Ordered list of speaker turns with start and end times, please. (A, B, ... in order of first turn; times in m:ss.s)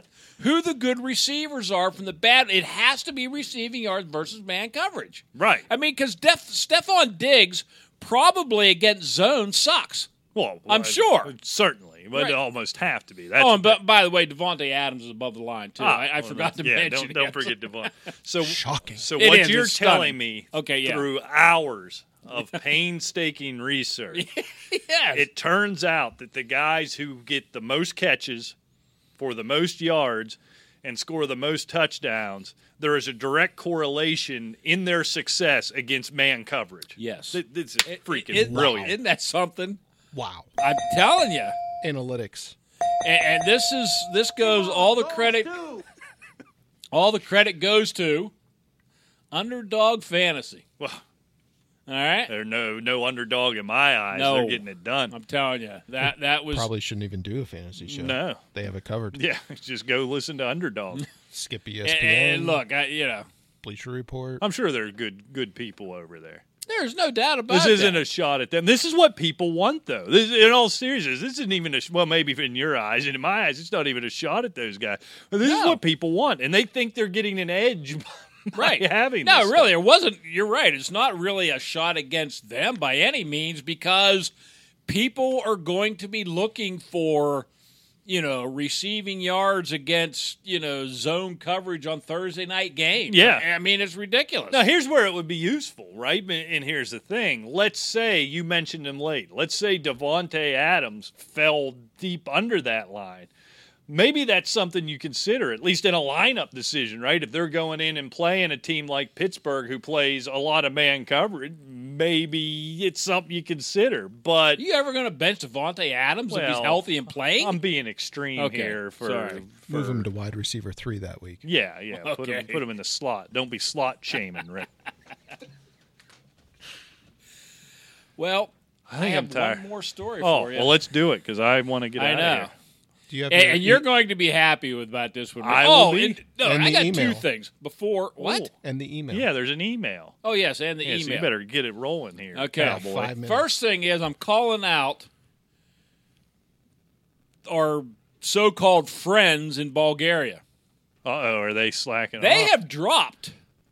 0:00.4-0:10.1 A
0:05.3-0:05.7 B
0:10.3-0:13.8 B
0:10.7-0:11.3 A
0:13.4-0:17.5 A
0:15.8-0:24.2 B
0:18.4-0:19.0 C
0:19.2-0:21.0 A
0:24.1-0:25.2 A
0:25.1-0:28.5 B
0:29.2-0:39.0 B
0:37.0-0:39.8 A
0:38.4-0:38.9 C
0:40.1-0:40.5 C
0:40.6-0:41.6 A
0:41.8-0:42.6 C
0:43.0-0:45.6 A
0:46.9-0:48.3 A
0:49.3-0:50.6 A
0:51.9-0:52.3 A
0:52.3-0:55.1 B
0:54.1-0:56.7 A
0:56.0-0:59.2 C
0:57.8-0:58.4 B
0:59.1-1:01.0 B
1:01.3-1:02.6 C
1:01.8-1:03.3 A
1:03.6-1:04.4 C
1:04.4-1:06.4 B
1:06.7-1:08.0 A
1:07.5-1:19.7 B
1:15.4-1:15.8 A
1:18.5-1:24.3 A
1:24.8-1:27.5 A
1:28.0-1:34.6 A
1:33.1-1:33.4 B
1:34.5-1:43.3 B
1:43.9-1:54.6 B
1:54.6-1:57.6 A
1:56.3-2:00.1 B
1:58.4-1:59.4 A
1:59.7-2:01.4 C
2:01.4-2:04.7 B
2:02.0-2:02.6 A
2:08.2-2:10.8 A
2:08.9-2:09.6 B
2:10.2-2:12.5 B
2:12.0-2:12.5 A
2:13.1-2:13.8 C
2:13.3-2:18.5 A
2:15.4-2:16.2 B
2:16.4-2:17.2 C
2:18.2-2:18.5 B
2:18.6-2:19.3 C
2:19.1-2:20.2 B
2:20.2-2:21.3 A
2:20.8-2:22.9 B
2:22.3-2:25.1 A
2:22.6-2:23.5 C
2:27.4-2:30.4 A
2:31.0-2:32.5 B
2:32.2-2:33.3 A